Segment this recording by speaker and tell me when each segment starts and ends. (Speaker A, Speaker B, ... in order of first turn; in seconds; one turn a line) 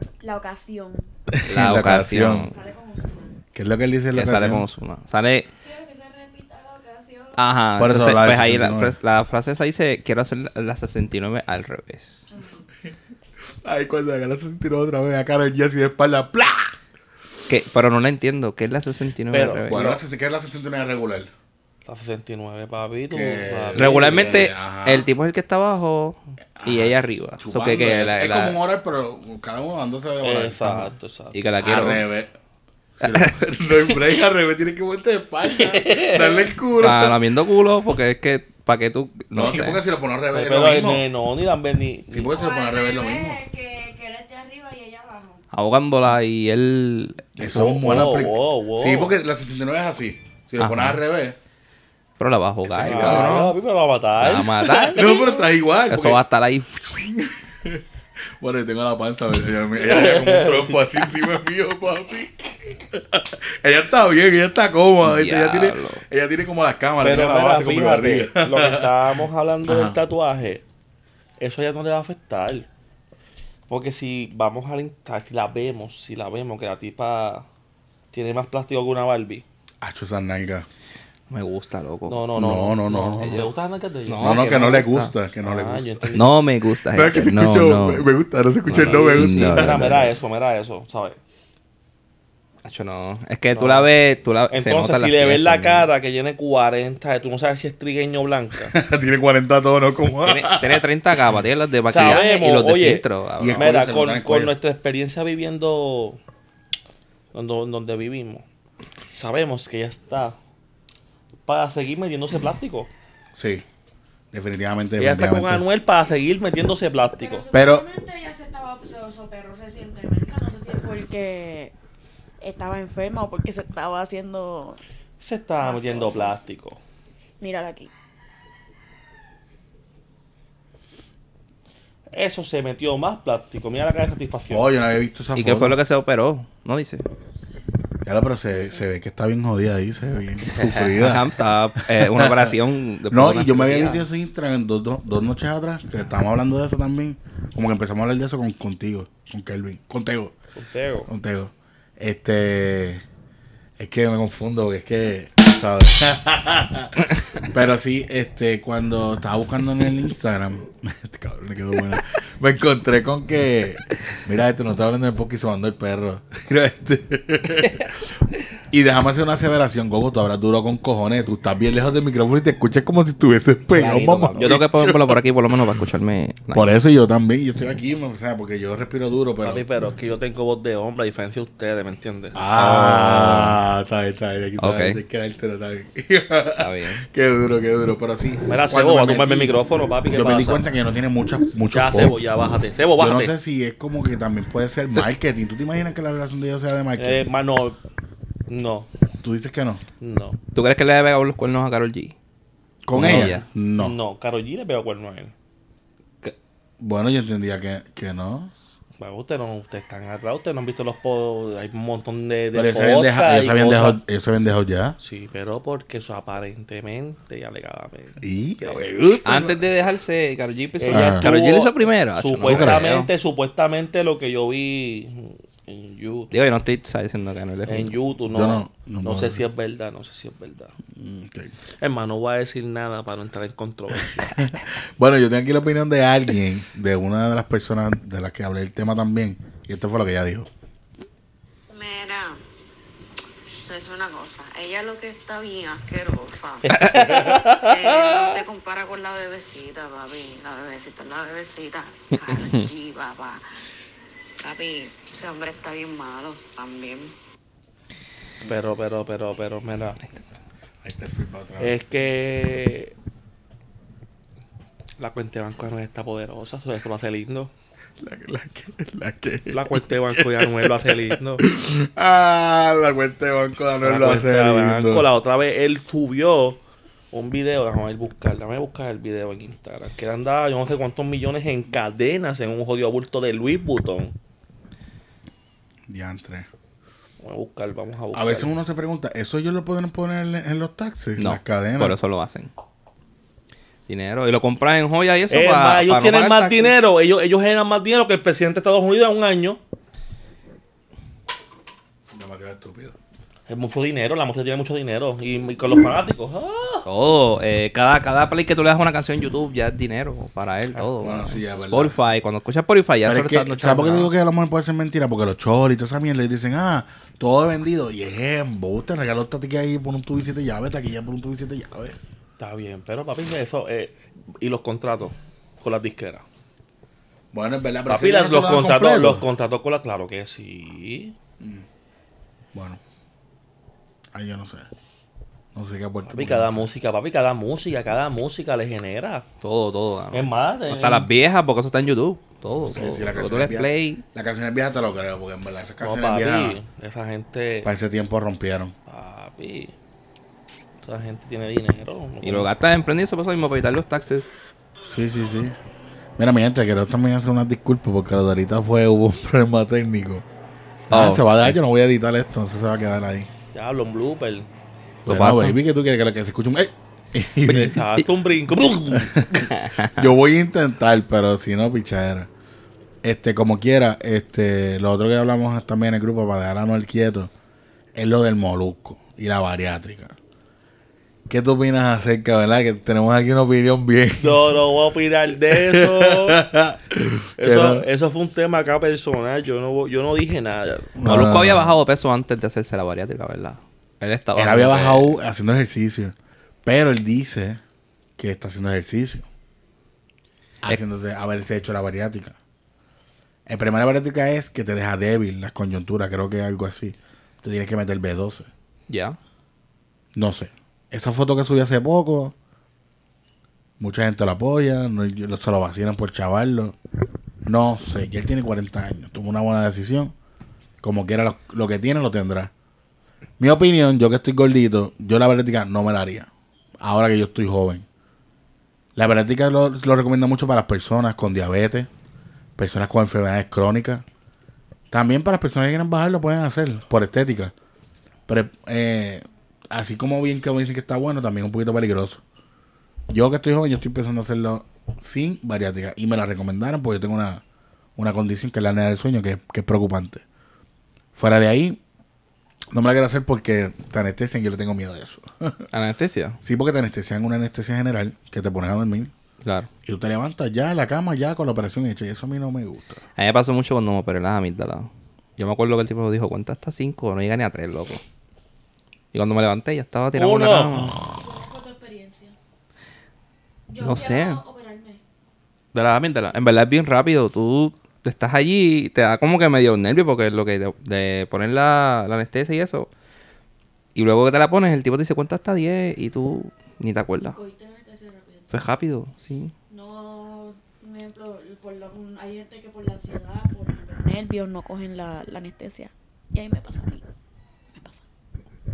Speaker A: 0.2-1.1
Speaker B: 1.3-2.5
Speaker C: 1.4-2.5
Speaker A: 2.4-3.4
Speaker B: 3.5-4.7
Speaker C: 4.1-5.5
Speaker A: 5.6-7.5
Speaker C: 7.3-12.2
Speaker B: 7.8-8.9
Speaker A: 12.3-12.7
Speaker B: 13.5-16.7
Speaker C: 17.5-19.8
Speaker D: 19.3-20.0
Speaker B: 19.7-21.3
Speaker D: 21.9-24.4
Speaker B: 23.1-25.1
Speaker C: 23.8-28.6
Speaker B: 26.6-30.9
Speaker D: 30.2-31.4
Speaker C: 31.3-32.1
Speaker B: 31.6-32.3
Speaker B: 33.0-37.2
Speaker C: 33.0-33.9
Speaker D: 35.5-36.5
Speaker C: 36.8-39.8
Speaker B: 39.3-41.0
Speaker D: 40.3-42.3
Speaker B: 42.1-43.4
Speaker A: 42.3-45.4
Speaker C: 45.5-48.3
Speaker B: 47.4-51.4
Speaker D: 47.4-49.1
Speaker C: 50.6-51.0
Speaker C: 52.2-53.5
Speaker B: 52.6-53.4
Speaker D: 52.8-54.7
Speaker C: 54.2-55.1
Speaker A: 54.7-55.5
Speaker B: 54.9-56.2
Speaker C: 55.9-57.0
Speaker B: 56.9-57.8
Speaker B: 58.4-69.1
Speaker D: 59.8-60.8
Speaker C: 65.0-66.0
Speaker D: 67.0-70.6
Speaker B: 69.7-70.0
Speaker D: 71.4-72.7
Speaker D: 73.7-77.5
Speaker D: 78.1-79.4
Speaker B: 79.8-80.7
Speaker C: 81.3-82.2
Speaker D: 82.1-84.9
Speaker B: 82.3-83.5
Speaker C: 84.1-85.1
Speaker B: 84.2-86.1
Speaker D: 85.4-86.3
Speaker C: 86.1-88.1
Speaker B: 86.9-90.0
Speaker C: 88.7-90.1
Speaker D: 88.7-91.2
Speaker C: 92.6-95.9
Speaker D: 93.5-93.9
Speaker D: 94.5-98.8
Speaker B: 98.7-100.8
Speaker C: 100.2-103.7
Speaker D: 101.9-106.2
Speaker B: 103.4-104.5
Speaker D: 107.3-108.4
Speaker D: 109.1-110.3
Speaker D: 111.5-112.9
Speaker B: 113.3-113.6
Speaker B: 114.3-115.6
Speaker D: 115.0-117.5
Speaker A: 117.1-121.7
Speaker B: 117.5-117.8
Speaker A: 122.4-124.8
Speaker D: 125.2-126.8
Speaker A: 125.6-126.4
Speaker A: 127.4-127.9
Speaker D: 132.1-134.7
Speaker B: 134.5-135.8
Speaker C: 135.3-137.0
Speaker B: 138.0-142.5
Speaker C: 140.6-144.1
Speaker B: 143.1-150.3
Speaker D: 150.6-151.1
Speaker B: 151.1-153.0
Speaker B: 153.8-168.1
Speaker B: 168.7-175.2
Speaker C: 173.7-176.8
Speaker B: 176.5-179.6
Speaker D: 179.4-183.2
Speaker B: 182.3-192.3
Speaker C: 184.6-185.0
Speaker C: 186.6-187.0
Speaker D: 188.5-190.7
Speaker D: 191.7-193.3
Speaker B: 193.0-197.2
Speaker D: 197.0-197.8
Speaker D: 198.5-198.9
Speaker B: 199.2-199.8
Speaker D: 200.0-200.4
Speaker C: 200.5-202.1
Speaker B: 202.8-203.9
Speaker C: 202.9-203.4
Speaker D: 203.8-205.3
Speaker B: 206.8-208.5
Speaker D: 209.0-214.0
Speaker B: 212.5-215.0
Speaker D: 215.0-218.8
Speaker B: 218.2-219.6
Speaker C: 219.2-223.1
Speaker D: 220.8-226.3
Speaker B: 220.9-221.3
Speaker B: 222.4-222.9
Speaker C: 226.3-227.9
Speaker D: 227.7-230.8
Speaker B: 228.3-229.4
Speaker B: 230.9-231.5
Speaker D: 231.8-234.5
Speaker B: 234.2-240.5
Speaker E: 241.7-242.4
Speaker E: 243.6-253.4
Speaker C: 246.7-247.1
Speaker D: 246.7-248.4
Speaker C: 252.2-252.7
Speaker E: 254.4-257.1
Speaker D: 258.4-260.0
Speaker B: 260.8-261.7
Speaker D: 261.6-262.9
Speaker D: 265.0-267.5
Speaker B: 268.0-275.1
Speaker D: 269.5-271.4
Speaker D: 273.8-276.6
Speaker D: 277.1-284.1
Speaker B: 285.9-286.5
Speaker D: 287.2-288.5
Speaker B: 288.1-292.0
Speaker C: 291.2-292.5
Speaker C: 293.9-296.7
Speaker D: 295.3-299.6
Speaker B: 302.1-302.9
Speaker D: 303.5-306.9
Speaker C: 306.9-314.1
Speaker B: 311.0-312.0
Speaker B: 313.1-322.0
Speaker D: 322.4-326.2
Speaker B: 327.3-329.2
Speaker D: 327.9-331.1
Speaker B: 331.4-331.6
Speaker B: 332.5-332.8
Speaker B: 334.1-334.7
Speaker B: 335.5-336.7
Speaker D: 336.0-339.2
Speaker C: 339.4-344.0
Speaker D: 340.1-341.1
Speaker B: 342.6-346.6
Speaker D: 345.8-347.7
Speaker B: 347.6-348.7
Speaker D: 348.9-349.7
Speaker D: 350.8-352.5
Speaker C: 352.2-354.3
Speaker B: 354.8-355.6
Speaker B: 356.2-360.2
Speaker C: 360.9-361.6
Speaker B: 360.9-363.3
Speaker D: 363.5-364.5
Speaker C: 365.1-365.6
Speaker B: 365.1-367.8
Speaker D: 367.4-369.5
Speaker B: 369.0-372.3
Speaker C: 369.6-370.0
Speaker B: 373.0-377.3
Speaker B: 377.9-380.1
Speaker B: 381.3-384.6
Speaker D: 384.2-386.4
Speaker B: 385.5-387.9
Speaker D: 387.4-390.9
Speaker B: 390.9-391.8
Speaker C: 391.0-395.1
Speaker B: 394.4-397.6
Speaker B: 398.2-399.2
Speaker B: 400.6-402.4
Speaker B: 403.5-408.5
Speaker C: 408.9-409.2
Speaker B: 410.1-412.3
Speaker B: 413.8-416.8
Speaker B: 417.4-420.1
Speaker B: 420.8-422.5
Speaker B: 423.4-426.3
Speaker B: 426.8-427.9
Speaker B: 428.9-431.9
Speaker B: 432.6-434.0
Speaker B: 434.9-437.5
Speaker B: 438.3-442.2
Speaker B: 443.1-447.4
Speaker B: 448.0-450.2
Speaker B: 451.1-451.8
Speaker B: 452.7-455.7
Speaker C: 455.7-456.4
Speaker B: 456.4-459.1
Speaker C: 459.4-459.7
Speaker B: 459.8-463.0
Speaker C: 463.2-468.0
Speaker C: 469.1-471.0
Speaker D: 470.1-471.0
Speaker A: 471.0-472.3
Speaker A: 473.7-475.0
Speaker C: 473.8-474.4
Speaker C: 475.7-482.9
Speaker C: 483.9-487.4
Speaker A: 487.2-488.5
Speaker C: 488.5-489.5
Speaker A: 489.7-497.0
Speaker A: 497.7-498.0